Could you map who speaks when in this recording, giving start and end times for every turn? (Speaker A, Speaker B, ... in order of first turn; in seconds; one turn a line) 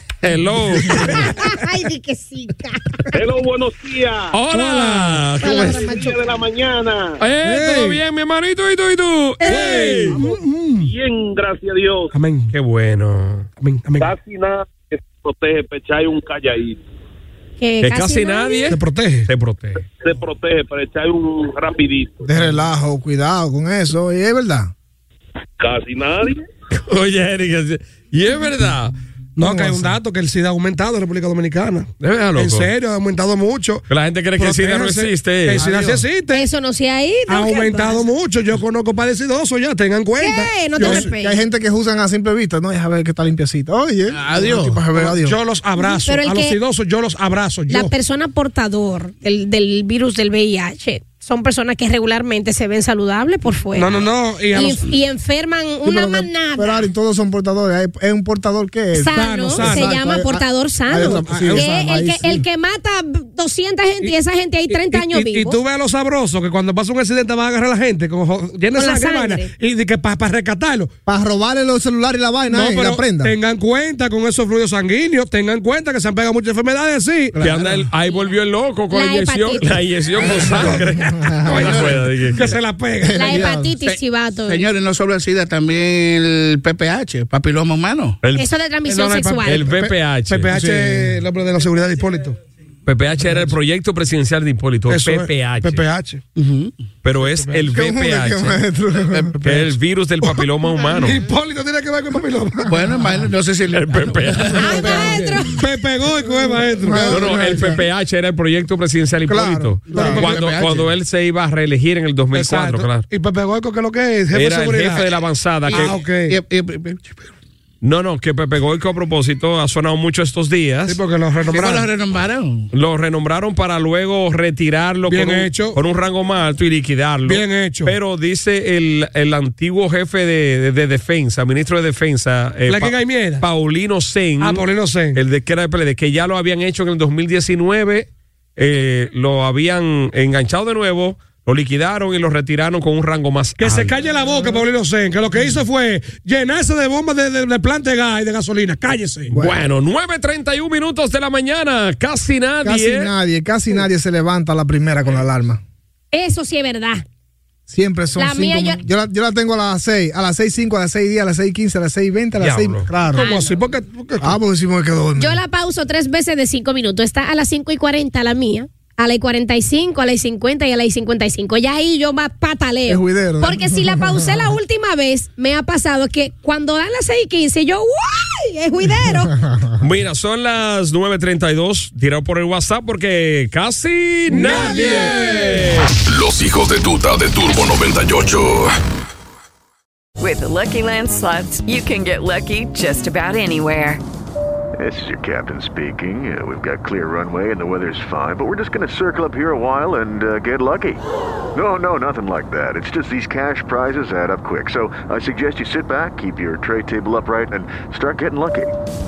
Speaker A: 0.2-1.2
Speaker B: 1.1-3.1
Speaker C: 3.1-4.3
Speaker A: 4.3-5.8
Speaker D: 4.5-5.8
Speaker B: 5.4-6.2
Speaker C: 5.7-7.2
Speaker A: 7.2-10.2
Speaker D: 7.4-8.0
Speaker B: 9.4-10.1
Speaker D: 9.4-10.9
Speaker C: 10.8-12.1
Speaker D: 12.1-12.5
Speaker A: 12.5-13.5
Speaker D: 13.6-14.1
Speaker C: 14.0-16.8
Speaker B: 17.6-18.7
Speaker A: 17.8-19.8
Speaker D: 18.7-19.3
Speaker C: 20.0-22.2
Speaker E: 22.2-24.7
Speaker C: 25.6-26.4
Speaker A: 26.8-28.9
Speaker D: 29.4-33.8
Speaker E: 29.4-29.9
Speaker A: 32.0-32.7
Speaker A: 33.9-35.6
Speaker D: 34.4-36.5
Speaker F: 35.6-36.0
Speaker E: 35.6-36.0
Speaker B: 36.3-38.0
Speaker D: 37.3-41.1
Speaker B: 40.2-41.4
Speaker E: 40.8-45.4
Speaker F: 44.1-44.8
Speaker D: 44.9-47.9
Speaker B: 45.8-46.6
Speaker B: 47.7-56.9
Speaker D: 53.7-55.0
Speaker E: 55.8-62.4
Speaker B: 58.9-65.6
Speaker D: 59.1-60.0
Speaker D: 60.9-61.8
Speaker D: 64.7-70.9
Speaker B: 68.7-69.5
Speaker E: 71.0-73.3
Speaker D: 72.5-77.4
Speaker F: 77.3-77.8
Speaker A: 77.4-82.5
Speaker B: 78.9-79.8
Speaker F: 80.2-80.7
Speaker D: 80.4-83.4
Speaker E: 81.1-81.7
Speaker F: 81.6-82.0
Speaker E: 83.0-83.7
Speaker B: 83.2-84.6
Speaker F: 83.8-88.2
Speaker A: 88.2-88.5
Speaker B: 88.3-89.6
Speaker D: 88.8-92.4
Speaker A: 89.5-90.5
Speaker E: 90.5-91.2
Speaker A: 92.8-95.8
Speaker D: 94.9-96.2
Speaker F: 96.3-96.7
Speaker A: 97.0-98.6
Speaker D: 97.2-97.6
Speaker E: 97.7-99.3
Speaker F: 99.1-99.5
Speaker A: 99.4-101.2
Speaker D: 100.2-102.7
Speaker F: 102.7-105.5
Speaker A: 103.7-104.9
Speaker B: 104.6-105.6
Speaker D: 105.5-107.2
Speaker E: 106.8-107.8
Speaker F: 106.9-107.2
Speaker A: 107.1-113.1
Speaker E: 109.3-110.3
Speaker F: 109.9-110.9
Speaker D: 109.9-110.4
Speaker D: 112.3-115.1
Speaker A: 114.3-116.0
Speaker F: 115.7-117.3
Speaker D: 115.7-116.3
Speaker A: 117.8-121.0
Speaker D: 120.9-121.9
Speaker F: 121.5-122.7
Speaker A: 122.7-143.9
Speaker D: 125.1-125.8
Speaker D: 127.2-127.9
Speaker D: 132.7-133.4
Speaker D: 134.4-135.2
Speaker D: 143.6-149.3
Speaker E: 149.3-149.6
Speaker A: 149.3-153.1
Speaker E: 152.6-155.6
Speaker B: 156.1-157.0
Speaker E: 157.7-163.3
Speaker B: 158.2-158.8
Speaker A: 162.4-162.9
Speaker D: 163.1-164.4
Speaker B: 163.1-163.5
Speaker E: 164.2-165.4
Speaker B: 165.2-179.4
Speaker E: 172.9-174.3
Speaker E: 179.4-179.7
Speaker A: 179.8-185.9
Speaker D: 184.3-185.5
Speaker E: 184.5-185.1
Speaker G: 186.1-188.7
Speaker H: 190.2-194.0
Speaker I: 194.8-201.0
Speaker I: 201.5-208.7